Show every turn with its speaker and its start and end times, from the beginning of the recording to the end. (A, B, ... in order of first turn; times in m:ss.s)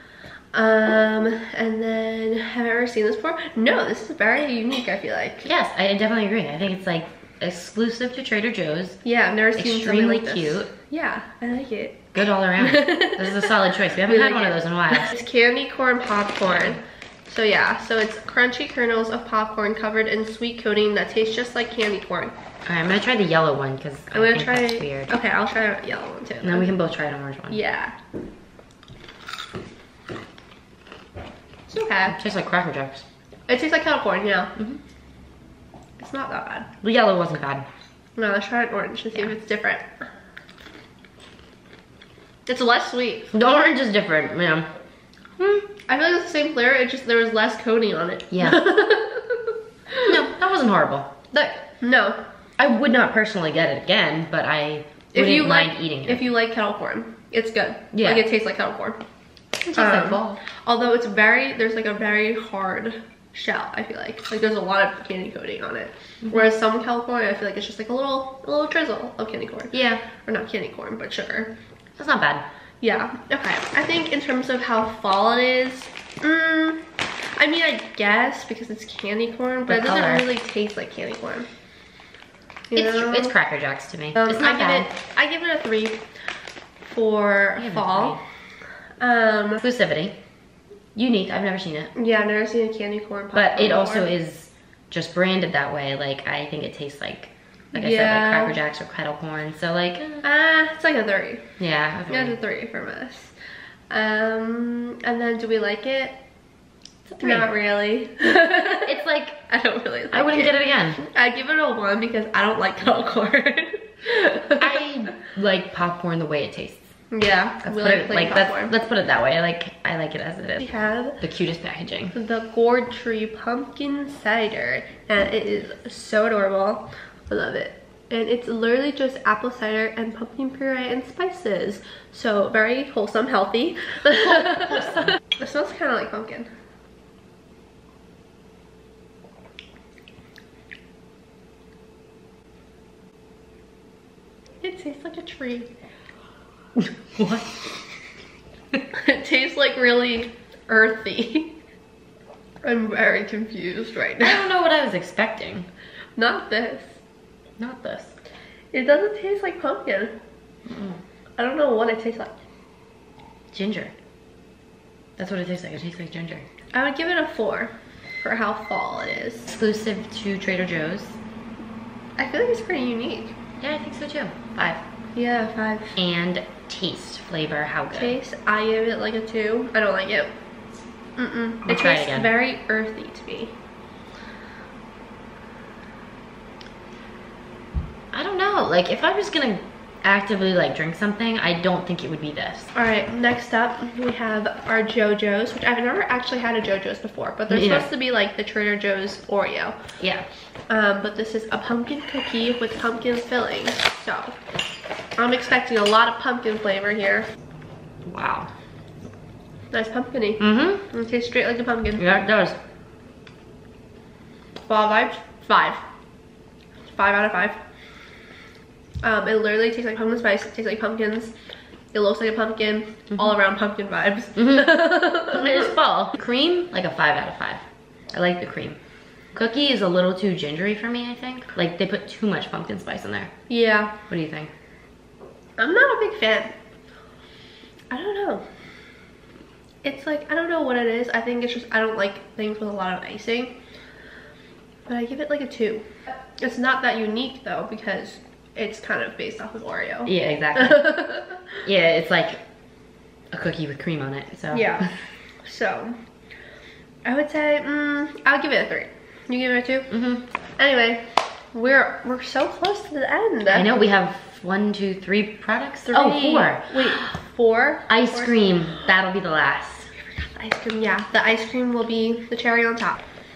0:00.5-0:05.5 A
0:05.4-0:09.0 B
0:09.0-0:12.0 A
0:09.6-0:10.7 B
0:12.1-0:15.1 B
0:12.6-0:22.3 A
0:16.4-0:16.8 B
0:22.6-0:25.2 B
0:24.1-0:26.7 A
0:26.4-0:27.6 B
0:27.5-0:27.9 A
0:31.7-0:32.2 A
0:32.1-0:33.0 B
0:33.5-0:34.5 A
0:36.0-0:36.7 A
0:36.8-0:37.6 B
0:38.2-0:39.9 A
0:42.4-0:43.3 A
0:43.3-0:44.7 B
0:45.4-0:45.7 B
0:45.9-0:50.1 A
0:48.3-0:48.7 B
0:50.0-0:51.6 B
0:51.8-0:52.2 A
0:52.6-0:56.3 B
0:55.1-0:59.0 A
0:57.9-0:58.3 B
0:59.6-1:00.4 B
0:59.7-1:11.5 A
1:09.7-1:10.0 B
1:12.0-1:12.4 B
1:12.8-1:21.5 A
1:19.7-1:20.2 B
1:22.7-1:23.3 A
1:22.7-1:24.9 B
1:24.2-1:26.0 A
1:26.8-1:28.2 A
1:27.6-1:28.2 B
1:29.0-1:29.6 A
1:29.6-1:30.2 B
1:30.9-1:31.9 B
1:31.9-1:34.1 A
1:33.3-1:40.2 B
1:37.7-1:38.6 A
1:40.2-1:41.4 A
1:41.6-1:42.4 B
1:42.1-1:43.3 A
1:43.9-1:46.2 A
1:47.0-1:47.5 B
1:47.2-1:48.9 A
1:48.7-1:49.4 B
1:49.5-1:54.8 A
1:50.1-1:51.0 B
1:54.6-1:56.9 B
1:57.1-1:58.7 A
1:57.6-2:00.7 B
2:00.6-2:01.2 A
2:01.2-2:02.1 B
2:02.1-2:16.5 A
2:14.1-2:15.1 B
2:24.6-2:25.7 A
2:26.8-2:27.6 B
2:28.9-2:31.5 A
2:32.6-2:34.4 A
2:34.2-2:35.7 B
2:36.2-2:36.9 A
2:37.6-2:38.1 B
2:38.7-2:40.1 A
2:40.7-2:41.0 B
2:41.4-2:42.3 A
2:43.5-2:43.9 B
2:45.2-2:46.4 B
2:46.7-2:49.5 A
2:49.5-2:51.2 B
2:52.2-2:53.4 A
2:53.6-2:54.8 B
2:55.1-2:56.0 A
2:56.0-2:58.2 B
2:57.9-3:00.3 A
3:01.2-3:03.5 A
3:01.6-3:02.3 B
3:08.1-3:12.7 B
3:12.7-3:19.8 A
3:17.5-3:17.9 B
3:20.0-3:20.2 B
3:20.7-3:24.4 A
3:25.2-3:27.3 A
3:28.0-3:28.5 B
3:29.7-3:32.0 A
3:30.4-3:30.8 B
3:32.0-3:32.6 B
3:34.7-3:35.8 A
3:36.9-3:37.6 A
3:39.0-3:41.3 A
3:41.9-3:45.7 A
3:44.4-3:48.8 B
3:49.3-3:53.3 B
3:53.5-3:53.9 A
3:54.1-3:54.5 B
3:55.6-3:56.5 A
3:57.9-3:58.4 A
3:59.8-4:03.5 A
4:04.9-4:11.6 A
4:10.0-4:11.0 B
4:11.6-4:12.4 B
4:13.3-4:14.9 B
4:14.5-4:14.9 A
4:15.4-4:16.0 A
4:17.0-4:19.9 A
4:19.9-4:20.2 B
4:20.6-4:23.7 A
4:23.5-4:27.1 B
4:25.9-4:28.7 A
4:27.9-4:29.9 B
4:30.2-4:33.0 A